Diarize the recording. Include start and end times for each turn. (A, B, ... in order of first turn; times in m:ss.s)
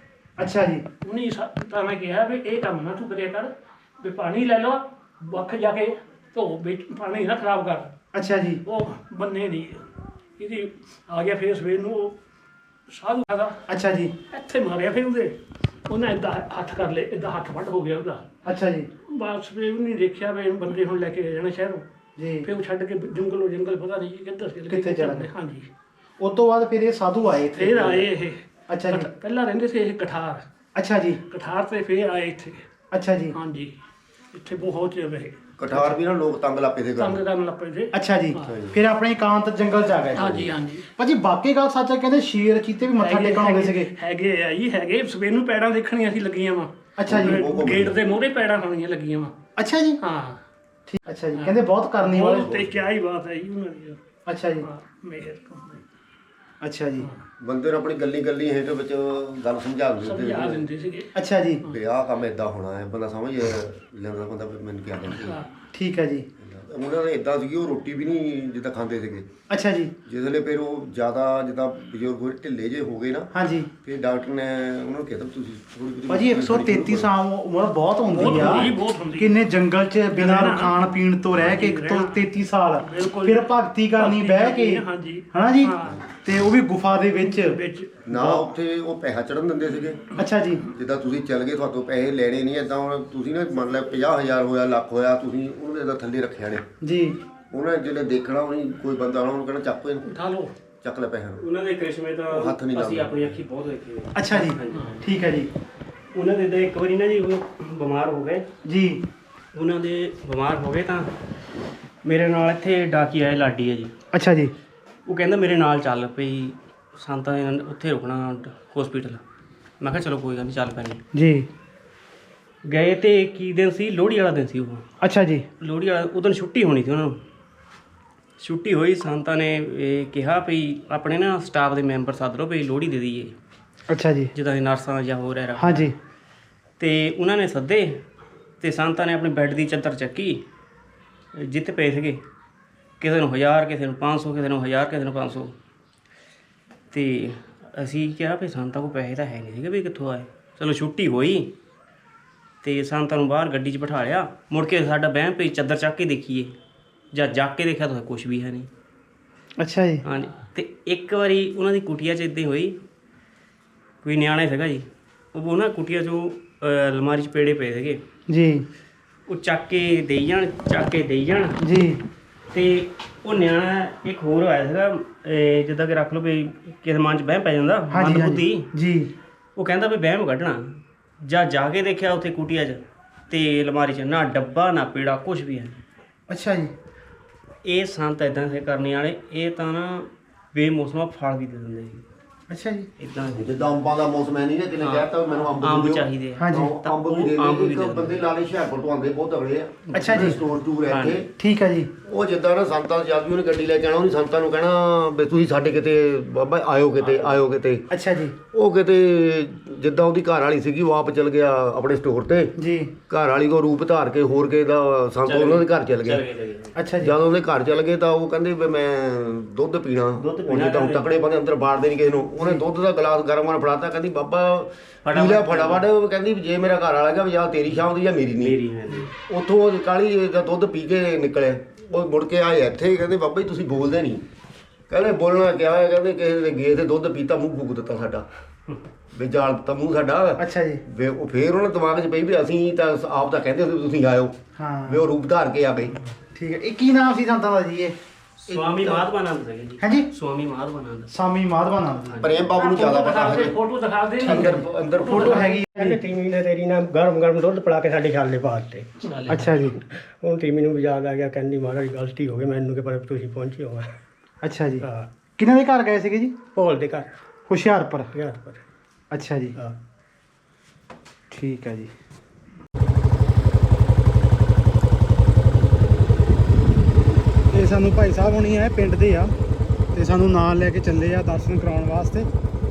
0:00.4-0:00.8 A
0:01.0-0:07.9 B
0:08.1-0:08.6 A
0:08.6-0:12.2 B
0:12.9-0:13.6 B
0:13.7-0:14.1 A
0:14.3-0:18.3 B
0:18.4-0:18.9 A
0:19.1-0:21.8 B
0:22.2-0:22.5 A
0:22.4-0:25.7 B
0:24.7-0:25.3 A
0:26.2-0:28.1 A
0:27.6-0:30.4 B
0:28.7-0:29.1 A
0:30.8-0:31.2 A
0:31.3-0:32.6 B
0:32.9-0:33.4 A
0:33.3-0:33.7 B
0:34.3-0:35.9 B
0:35.6-0:37.2 C
0:37.0-0:38.6 B
0:37.9-0:40.3 A
0:38.4-0:38.8 C
0:40.1-0:40.5 C
0:40.2-0:40.8 B
0:41.0-0:43.9 A
0:43.0-0:49.3 B
0:47.0-0:47.4 A
0:47.0-0:48.0 C
0:49.6-0:50.0 A
0:50.0-0:50.4 B
0:50.9-0:52.5 A
0:51.3-0:54.0 B
0:52.4-0:52.9 C
0:54.3-0:54.7 A
0:54.6-0:55.8 B
0:56.6-0:57.1 A
0:57.4-1:00.7 C
1:00.0-1:01.1 B
1:01.1-1:01.6 A
1:01.6-1:05.4 C
1:05.2-1:05.5 B
1:05.7-1:06.3 A
1:06.4-1:09.3 C
1:09.5-1:10.0 A
1:10.0-1:13.3 C
1:13.3-1:13.7 A
1:13.8-1:17.1 C
1:16.1-1:27.6 A
1:18.1-1:19.4 B
1:18.1-1:18.7 C
1:20.1-1:20.7 B
1:21.4-1:22.2 B
1:22.8-1:26.0 B
1:27.2-1:28.5 B
1:28.0-1:30.1 C
1:30.2-1:30.6 A
1:30.7-1:36.6 C
1:36.8-1:37.2 A
1:37.5-1:40.1 C
1:40.0-1:40.5 B
1:40.8-1:41.4 C
1:41.4-1:45.0 D
1:42.3-1:43.4 C
1:44.1-1:45.5 A
1:46.1-1:48.5 D
1:48.6-1:49.0 A
1:49.5-1:51.1 D
1:52.0-1:53.9 D
1:54.1-1:54.5 A
1:55.0-1:59.2 D
1:59.8-2:01.0 D
2:01.1-2:01.5 A
2:02.6-2:04.8 D
2:05.0-2:05.4 A
2:05.6-2:07.2 D
2:08.4-2:13.4 D
2:13.9-2:14.3 A
2:14.3-2:15.9 D
2:15.6-2:15.9 A
2:16.8-2:18.0 D
2:18.6-2:20.4 D
2:21.4-2:22.2 D
2:23.0-2:25.6 D
2:26.9-2:31.5 D
2:32.6-2:36.5 D
2:37.1-2:38.7 D
2:39.6-2:40.0 A
2:40.0-2:42.8 D
2:44.0-2:48.0 D
2:48.3-2:48.7 A
2:49.3-2:51.6 D
2:51.6-2:52.0 A
2:52.5-2:58.7 D
2:57.9-2:59.1 A
2:59.6-3:05.8 D
3:06.3-3:06.7 A
3:07.6-3:12.0 D
3:12.5-3:12.9 A
3:13.0-3:13.5 D
3:13.3-3:21.3 C
3:14.8-3:18.2 D
3:16.4-3:16.7 A
3:19.9-3:20.4 A
3:20.0-3:21.2 D
3:21.4-3:21.9 A
3:22.0-3:27.9 C
3:27.0-3:27.4 D
3:27.9-3:28.4 A
3:28.5-3:32.5 C
3:32.6-3:32.9 A
3:33.1-3:36.2 C
3:35.3-3:36.8 D
3:36.8-3:37.1 A
3:37.0-3:48.6 C
3:40.2-3:41.0 D
3:45.0-3:45.8 D
3:48.4-3:49.1 D
3:49.3-3:54.2 C
3:54.9-3:58.3 C
3:59.1-4:06.0 C
4:00.4-4:00.8 A
4:04.6-4:05.0 A
4:06.3-4:08.0 A
4:08.5-4:11.1 D
4:09.8-4:10.1 A
4:11.1-4:12.2 A
4:12.0-4:12.5 D
4:12.2-4:13.6 C
4:12.5-4:15.5 B
4:14.2-4:16.0 A
4:14.2-4:15.4 C
4:15.7-4:18.9 E
4:19.1-4:19.4 D
4:19.3-4:19.8 A
4:19.9-4:23.9 E
4:24.4-4:24.8 A
4:24.8-4:25.1 E
4:25.4-4:26.4 A
4:26.5-4:27.1 E
4:27.5-4:28.1 A
4:28.1-4:28.6 E
4:29.1-4:29.6 A
4:31.3-4:31.9 A
4:37.5-4:39.3 A
4:39.9-4:42.3 A